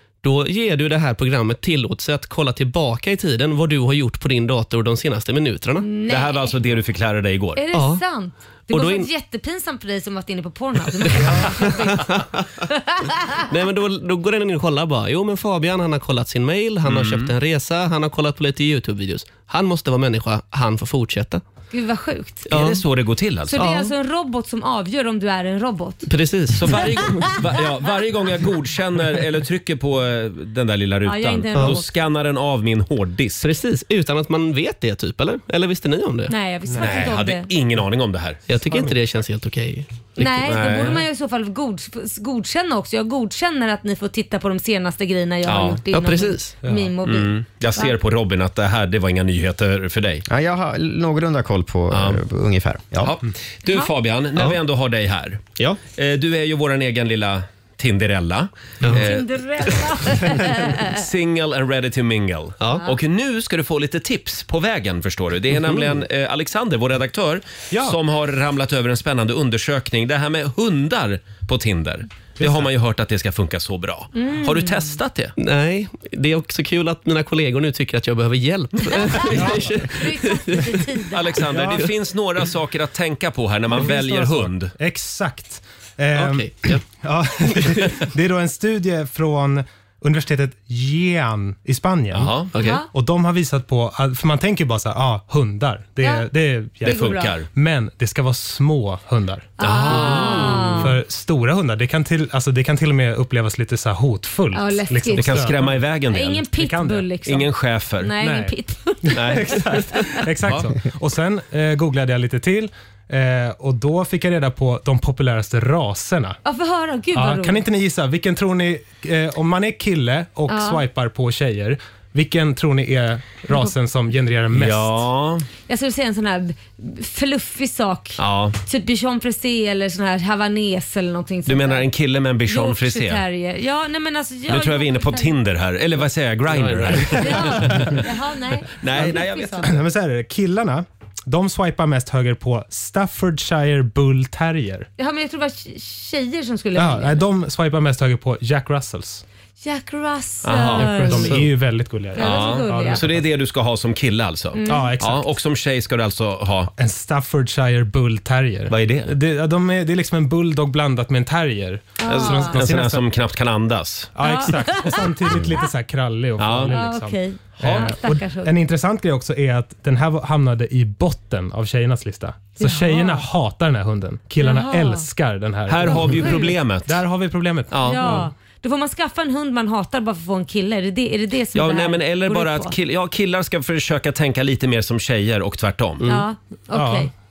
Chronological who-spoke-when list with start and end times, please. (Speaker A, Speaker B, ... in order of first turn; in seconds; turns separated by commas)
Speaker A: 0.2-5.9, Speaker B: 5.8-6.5, Speaker C: 6.1-7.6, Speaker B: 7.6-12.1, Speaker A: 7.7-8.0, Speaker A: 8.7-9.1, Speaker A: 11.1-12.5, Speaker B: 12.7-13.1, Speaker A: 13.3-21.4, Speaker C: 16.9-17.3, Speaker B: 21.7-22.5, Speaker A: 22.5-22.8, Speaker C: 22.5-23.6, Speaker B: 23.5-26.1, Speaker A: 23.5-23.9, Speaker A: 26.1-27.1, Speaker C: 26.6-33.5, Speaker B: 31.1-31.9, Speaker A: 31.5-31.8, Speaker A: 33.4-36.3, Speaker B: 36.3-37.5, Speaker D: 36.7-37.1, Speaker C: 36.8-38.4, Speaker A: 38.5-40.7, Speaker D: 38.6-39.0, Speaker B: 40.2-47.9, Speaker C: 40.5-41.0, Speaker C: 45.5-45.8, Speaker A: 45.9-46.6, Speaker D: 46.6-46.9, Speaker C: 47.0-50.2, Speaker E: 50.3-53.1, Speaker C: 51.9-52.2, Speaker C: 53.0-75.3, Speaker A: 58.8-59.1, Speaker B: 58.9-61.0, Speaker D: 67.7-68.0, Speaker D: 72.4-72.7, Speaker B: 74.2-74.9, Speaker A: 75.4-80.8, Speaker B: 79.0-79.2, Speaker D: 79.3-79.9, Speaker B: 79.9-81.4, Speaker C: 81.1-84.7, Speaker D: 81.5-81.9, Speaker D: 83.7-105.8, Speaker A: 86.1-86.8, Speaker A: 87.6-88.0, Speaker C: 92.1-92.5, Speaker A: 92.5-92.8, Speaker B: 92.6-92.9, Speaker B: 96.0-96.3, Speaker B: 96.8-97.3, Speaker C: 96.8-97.5, Speaker B: 99.6-100.9, Speaker C: 99.6-100.8, Speaker B: 104.5-105.5, Speaker C: 105.2-106.5, Speaker B: 106.1-110.2, Speaker D: 106.5-107.1, Speaker C: 107.2-108.1, Speaker D: 108.2-116.4, Speaker A: 109.4-109.8, Speaker C: 110.4-110.7, Speaker B: 116.5-117.6, Speaker D: 117.1-125.1, Speaker B: 120.5-120.8, Speaker C: 124.5-125.5, Speaker B: 125.7-131.9, Speaker C: 128.2-128.6, Speaker C: 131.5-133.2, Speaker B: 132.5-135.3, Speaker C: 134.5-138.0, Speaker A: 136.5-137.3, Speaker B: 137.1-139.7, Speaker D: 137.7-137.9, Speaker C: 138.8-139.7, Speaker D: 139.0-144.9, Speaker B: 145.0-147.2, Speaker D: 146.8-149.2, Speaker B: 149.6-151.4, Speaker C: 150.4-151.4, Speaker A: 150.8-151.5, Speaker D: 150.8-153.3, Speaker B: 152.1-153.0, Speaker C: 152.2-156.7, Speaker B: 154.6-154.9, Speaker D: 154.7-155.3, Speaker D: 156.8-163.1, Speaker C: 158.7-159.1, Speaker B: 162.0-162.6, Speaker C: 162.1-164.1, Speaker D: 164.2-178.3, Speaker B: 164.2-165.6, Speaker C: 166.4-166.8, Speaker B: 166.7-168.5, Speaker C: 167.6-167.9, Speaker B: 172.6-173.3, Speaker B: 174.4-175.1, Speaker C: 175.7-177.0, Speaker B: 175.9-176.5, Speaker C: 177.7-178.0, Speaker B: 177.8-182.7, Speaker C: 181.5-186.0, Speaker A: 186.0-186.3, Speaker B: 186.0-187.1, Speaker D: 186.7-187.1